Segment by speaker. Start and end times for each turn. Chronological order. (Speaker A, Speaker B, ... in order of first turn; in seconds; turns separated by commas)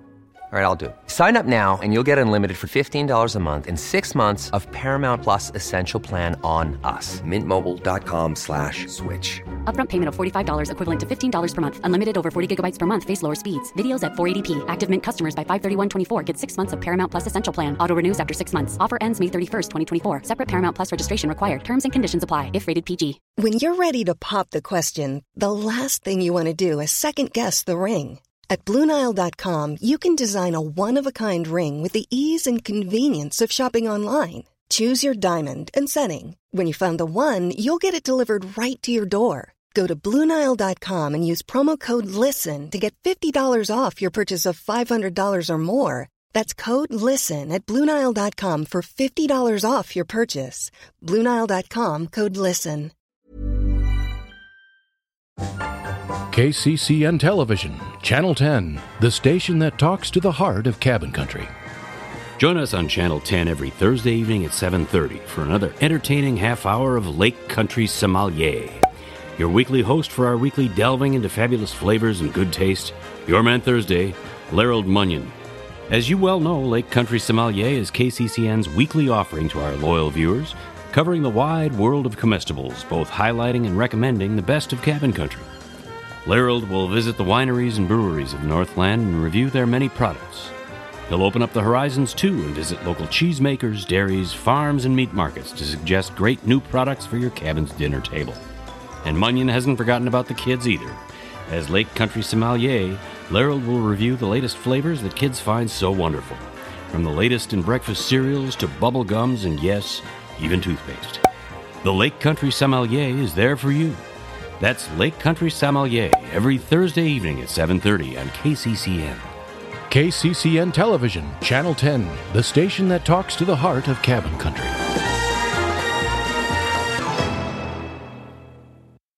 Speaker A: 0.5-9.5, Speaker B: 9.6-23.2, Speaker C: 23.4-52.9, Speaker D: 56.3-61.5, Speaker E: 62.4-68.8, Speaker E: 69.4-75.3, Speaker E: 75.9-85.5, Speaker E: 86.2-90.5, Speaker E: 91.1-98.4, Speaker E: 99.0-111.2, Speaker E: 111.8-114.0, Speaker E: 114.6-119.3, Speaker D: 119.9-124.8